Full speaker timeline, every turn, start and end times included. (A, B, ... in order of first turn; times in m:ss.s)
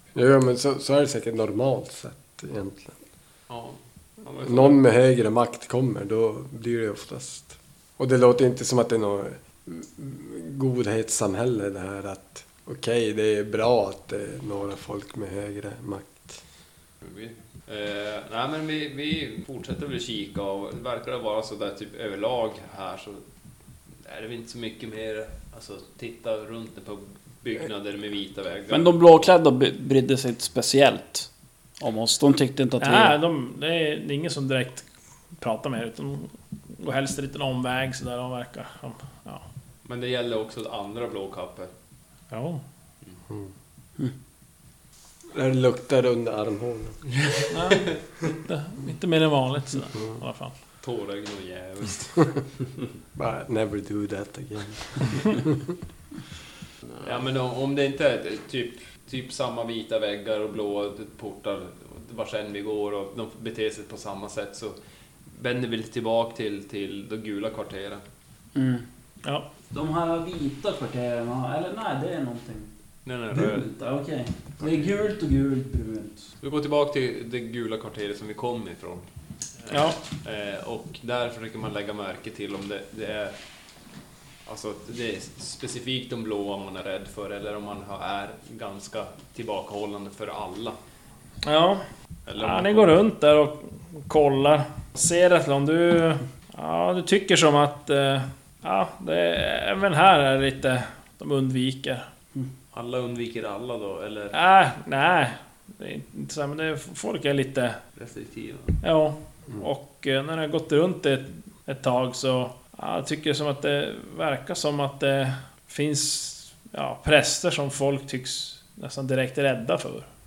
0:00.2-0:03.0 A
0:03.5-0:04.8 B
0:04.4-0:16.4 A
0:17.0-0:23.2 B
0:24.0-0:29.0 B
0:28.7-0:31.3 C
0:31.8-0:33.2 C
0:32.8-0:34.9 D
0:35.4-0:39.4 D
0:39.8-0:41.7 B
0:42.3-0:42.6 D
0:45.3-0:47.0 A
0:47.2-0:48.0 B
0:47.5-0:50.5 D
0:50.8-0:52.4 B
0:53.2-0:55.6 A
0:57.0-1:04.8 B
1:05.3-1:08.0 B
1:08.6-1:08.9 C
1:09.7-1:12.7 C
1:13.0-1:13.7 B
1:13.3-1:16.3 C
1:14.6-1:14.9 B
1:16.4-1:19.1 B
1:19.6-1:23.4 B
1:19.7-1:20.0 D
1:24.4-1:30.8 B
1:31.4-1:31.8 D
1:32.3-1:33.0 B
1:32.4-1:42.1 D
1:42.7-1:44.4 B
1:44.3-1:47.8 D
1:48.0-1:48.8 B
1:48.8-2:00.1 D